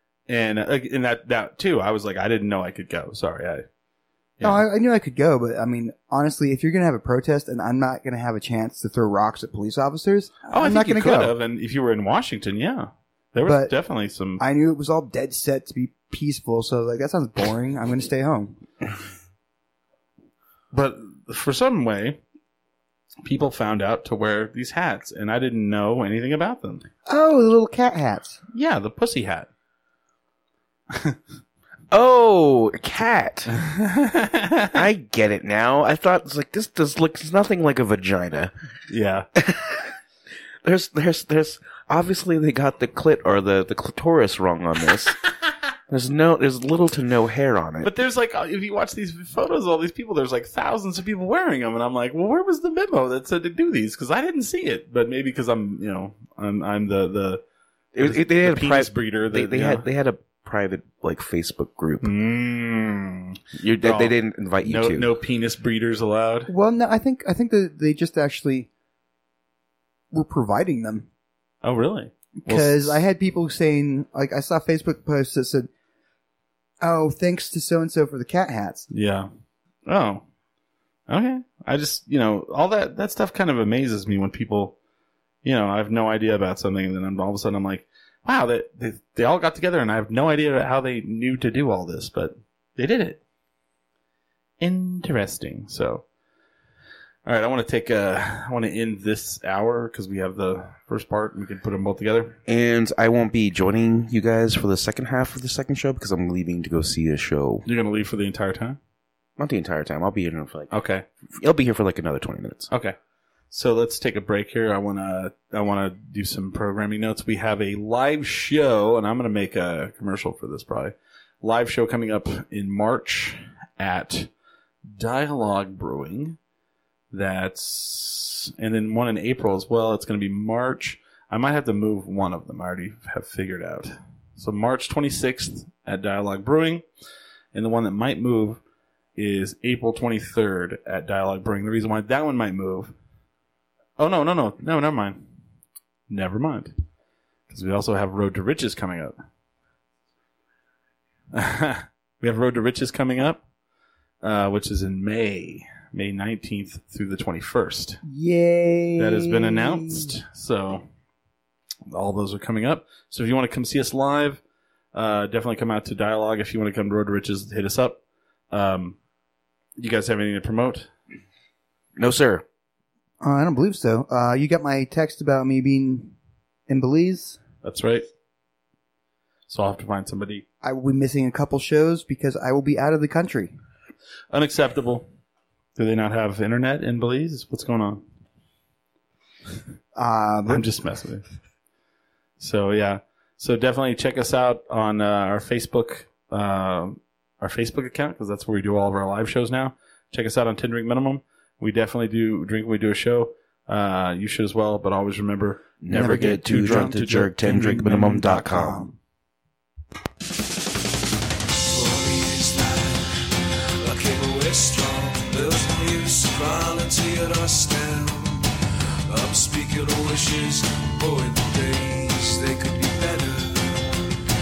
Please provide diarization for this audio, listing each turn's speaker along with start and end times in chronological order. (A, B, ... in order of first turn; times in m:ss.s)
0:00.3-0:03.6 A
0:04.4-0:04.6 A
0:04.4-0:11.3 B
0:10.5-0:14.4 A
0:13.4-0:13.8 B
0:14.4-0:18.6 B
0:20.7-0:22.2 A
0:23.2-0:26.8 A
0:27.1-0:28.4 B
0:28.5-0:29.5 A
0:30.9-0:31.2 A
0:31.9-0:33.5 C
0:33.5-0:34.8 A
0:34.7-0:38.5 C
0:38.9-0:39.3 A
0:39.4-0:39.9 C
0:40.6-0:45.2 C
0:45.9-0:47.9 C
0:47.8-0:57.4 A
0:58.0-1:02.1 C
0:58.0-0:59.8 A
1:02.0-1:06.5 A
1:03.5-1:05.1 C
1:06.5-1:08.7 B
1:10.1-1:11.1 B
1:11.6-1:13.0 A
1:12.4-1:15.7 B
1:16.8-1:18.9 B
1:18.9-1:19.3 A
1:19.9-1:20.2 A
1:21.1-1:24.8 A
1:25.4-1:33.2 A
1:34.6-1:36.0 A
1:37.3-1:42.4 A
1:42.5-1:47.6 C
1:47.6-1:48.8 A
1:49.4-1:50.7 C
1:50.7-1:51.0 A
1:51.4-1:52.7 C
1:53.5-2:04.3 A
2:05.0-2:06.4 A
2:07.1-2:16.9 A
2:17.5-2:18.6 A
2:19.2-2:22.9 A
2:24.0-2:25.3 A
2:26.1-2:26.7 A
2:27.5-2:29.2 A
2:31.3-2:33.4 A
2:34.2-2:38.0 A
2:38.1-2:40.1 B
2:39.0-2:40.9 A
2:41.9-2:44.4 A
2:44.9-2:48.0 A
2:48.5-2:49.0 A
2:49.8-2:50.9 A
2:52.0-2:52.4 C
2:53.2-2:56.1 B
2:56.7-2:57.4 B
2:57.6-2:58.1 A
2:59.5-3:00.4 A
3:00.6-3:03.5 B
3:04.3-3:05.0 A
3:05.8-3:08.0 A
3:10.0-3:10.7 B
3:10.5-3:11.2 A
3:12.4-3:28.9 A
3:25.8-3:28.9 C
3:25.9-3:28.9 B
3:31.6-3:44.1 D